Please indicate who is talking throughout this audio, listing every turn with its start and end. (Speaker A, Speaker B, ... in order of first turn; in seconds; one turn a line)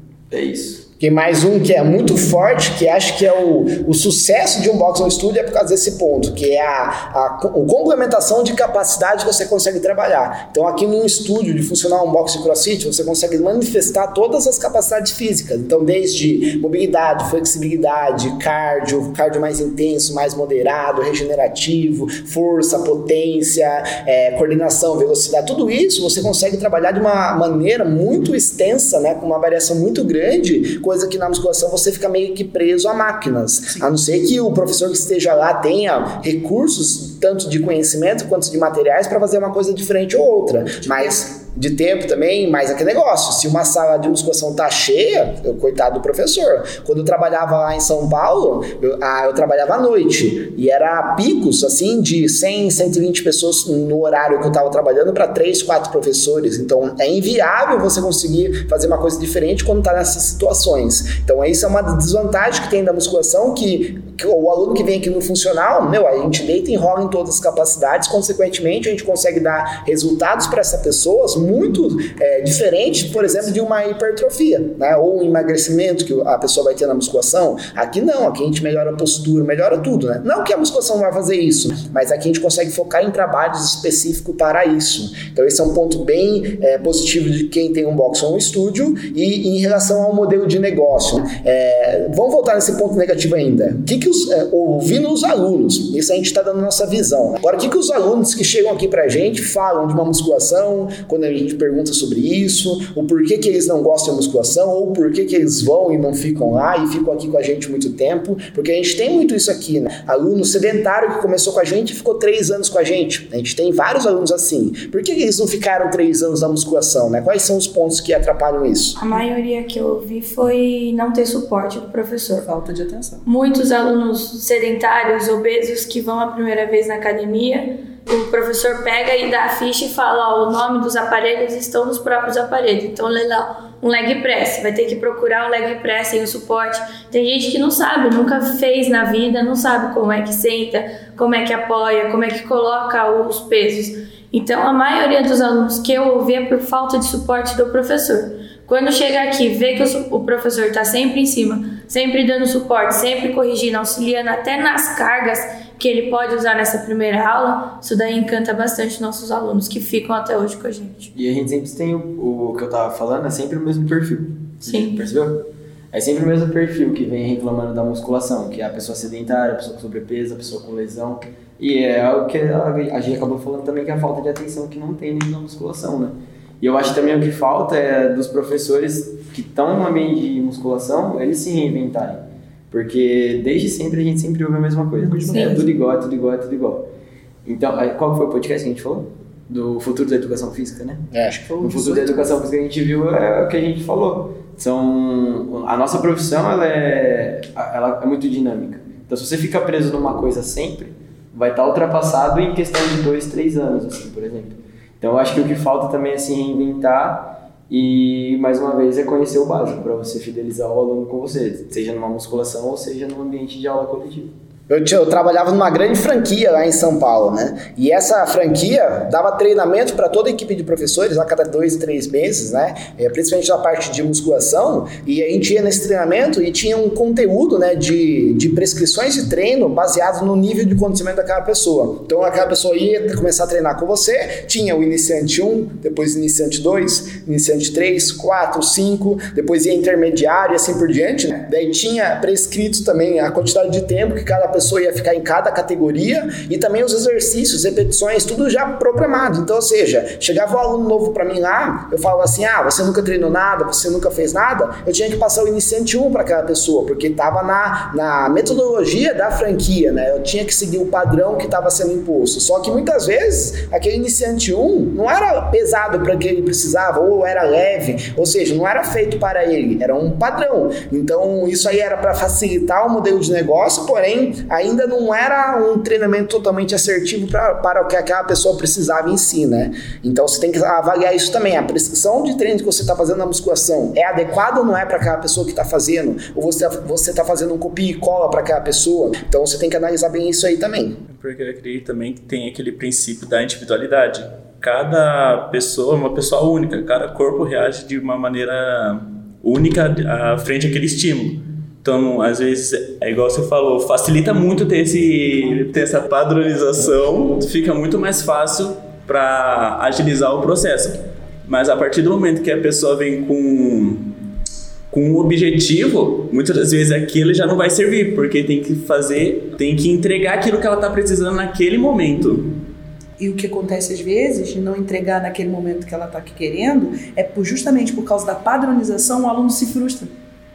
Speaker A: 0.3-0.8
Speaker B: 1.0-119.0
Speaker C: 40.8-41.1
Speaker D: 119.0-122.5
Speaker C: 122.4-123.2
Speaker D: 123.2-161.1
Speaker A: 161.1-186.9
Speaker D: 164.6-165.0
Speaker C: 185.0-185.6
Speaker D: 185.3-185.6
Speaker A: 187.4-191.0
Speaker B: 191.1-191.4
Speaker C: 191.3-192.3
Speaker A: 191.6-214.3
Speaker B: 214.7-291.0
Speaker E: 291.1-314.1
Speaker E: 314.9-322.6
Speaker C: 323.2-330.1